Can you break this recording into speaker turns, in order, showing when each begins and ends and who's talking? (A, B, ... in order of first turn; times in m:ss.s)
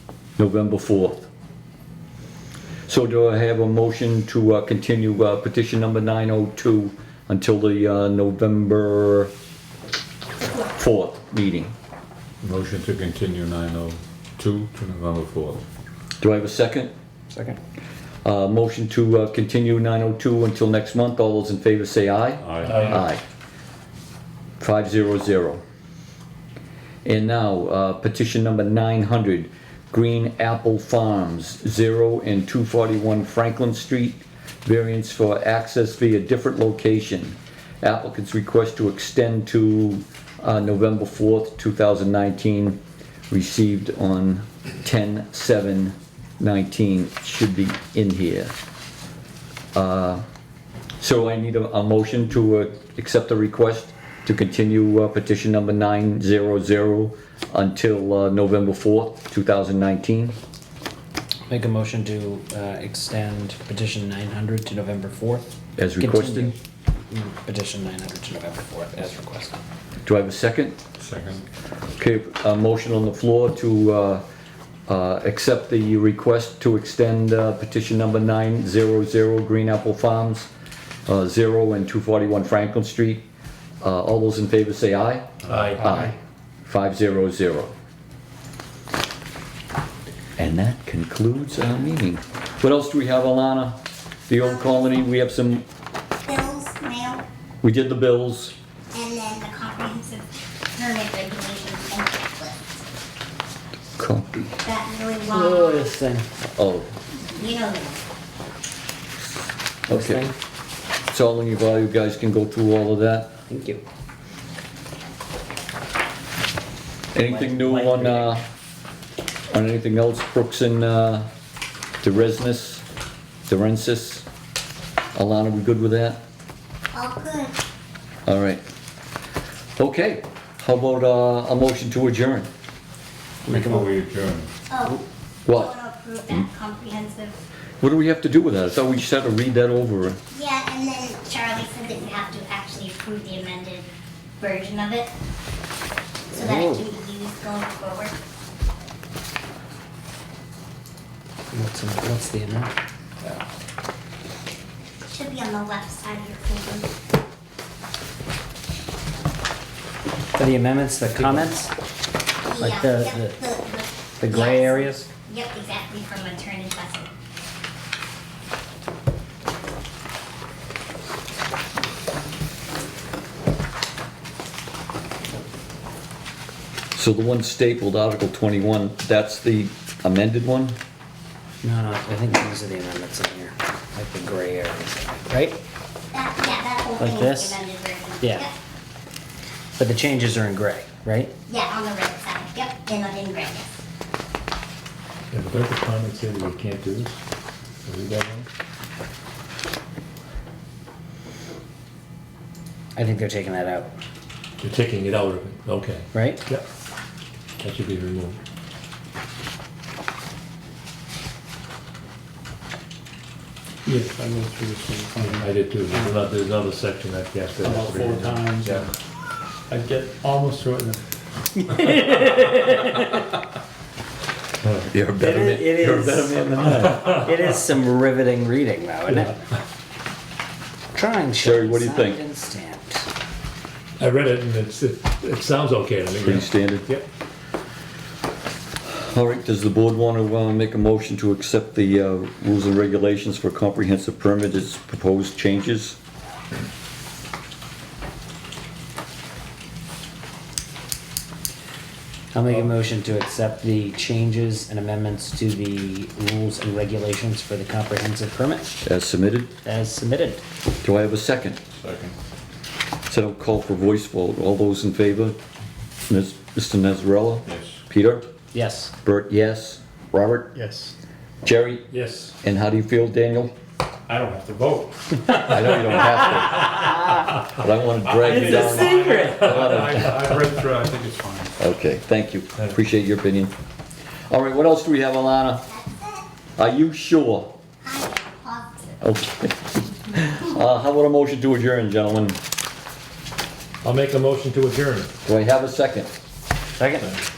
0:00.4-0:01.3 A
0:02.9-0:09.3 A
0:10.6-0:11.7 A
0:12.4-0:15.6 B
0:16.2-0:16.9 A
0:18.2-0:23.2 A
0:22.4-0:23.0 B
0:22.7-0:22.9 C
0:24.6-0:25.6 A
0:27.0-0:42.8 A
0:43.3-0:48.5 A
0:49.7-0:50.2 A
0:51.0-1:00.4 A
1:01.5-1:05.5 D
1:05.8-1:06.5 A
1:06.0-1:06.6 D
1:07.1-1:09.6 D
1:10.0-1:10.8 A
1:11.0-1:11.4 B
1:12.0-1:14.2 A
1:14.9-1:20.5 A
1:21.1-1:23.2 A
1:23.8-1:26.1 A
1:25.5-1:26.0 C
1:26.6-1:27.7 A
1:30.4-1:33.8 A
1:34.3-1:35.6 A
1:34.4-1:34.8 E
1:36.2-1:37.2 E
1:37.6-1:38.5 A
1:38.9-1:42.7 E
1:44.0-1:44.6 A
1:44.6-1:45.9 E
1:45.3-1:46.3 D
1:46.6-1:46.9 A
1:47.3-1:48.0 E
1:49.9-1:50.3 A
1:49.9-1:50.3 D
1:51.1-1:53.3 A
1:53.5-1:53.8 D
1:57.1-1:58.4 A
1:57.2-1:58.3 D
1:59.5-2:01.3 A
2:02.0-2:02.8 A
2:03.5-2:04.2 A
2:05.1-2:06.2 A
2:06.9-2:07.6 E
2:08.3-2:08.6 A
2:09.8-2:12.5 A
2:13.5-2:13.9 D
2:13.5-2:14.5 B
2:14.7-2:17.4 E
2:15.5-2:15.7 A
2:17.8-2:20.2 A
2:20.3-2:23.9 E
2:24.4-2:25.1 E
2:26.3-2:28.2 E
2:26.3-2:26.9 D
2:31.5-2:32.7 D
2:35.1-2:36.9 E
2:40.3-2:41.7 D
2:42.4-2:47.1 E
2:42.6-2:43.4 D
2:44.2-2:45.1 D
2:56.9-3:00.8 A
3:01.6-3:05.6 D
3:06.1-3:08.5 E
3:07.0-3:07.6 D
3:08.2-3:08.5 D
3:09.8-3:11.3 D
3:11.5-3:13.7 E
3:15.3-3:17.2 C
3:17.8-3:18.5 C
3:22.9-3:23.9 D
3:24.6-3:26.6 C
3:26.1-3:26.4 D
3:27.6-3:28.4 C
3:33.8-3:36.2 F
3:35.1-3:38.9 C
3:37.6-3:38.8 F
3:39.7-3:41.0 F
3:41.7-3:43.0 D
3:44.9-3:47.2 A
3:45.2-3:46.3 D
3:47.0-3:49.4 D
3:50.9-3:53.1 D
3:51.4-3:52.2 A
3:54.0-3:57.0 C
3:56.2-3:56.9 A
3:58.9-4:06.0 A
4:12.3-4:18.8 D
4:18.8-4:19.5 A
4:19.6-4:20.4 D
4:20.8-4:21.6 A
4:21.8-4:22.1 B
4:23.1-4:25.4 A
4:26.1-4:28.3 A
4:27.5-4:27.7 B
4:28.5-4:28.9 D
4:29.0-4:30.5 A
4:31.4-4:31.9 A
4:31.9-4:32.3 C
4:32.4-4:33.5 A
4:34.1-4:34.9 F
4:35.3-4:40.1 A
4:38.2-4:40.5 C
4:38.9-4:39.4 D
4:40.4-4:41.3 F
4:41.6-4:43.5 A
4:44.3-4:45.6 A
4:45.7-4:46.2 E
4:46.6-4:47.5 A
4:47.8-4:49.0 E
4:49.0-4:52.4 A
4:53.8-4:55.1 C
4:55.2-4:56.1 A
4:56.8-4:57.2 D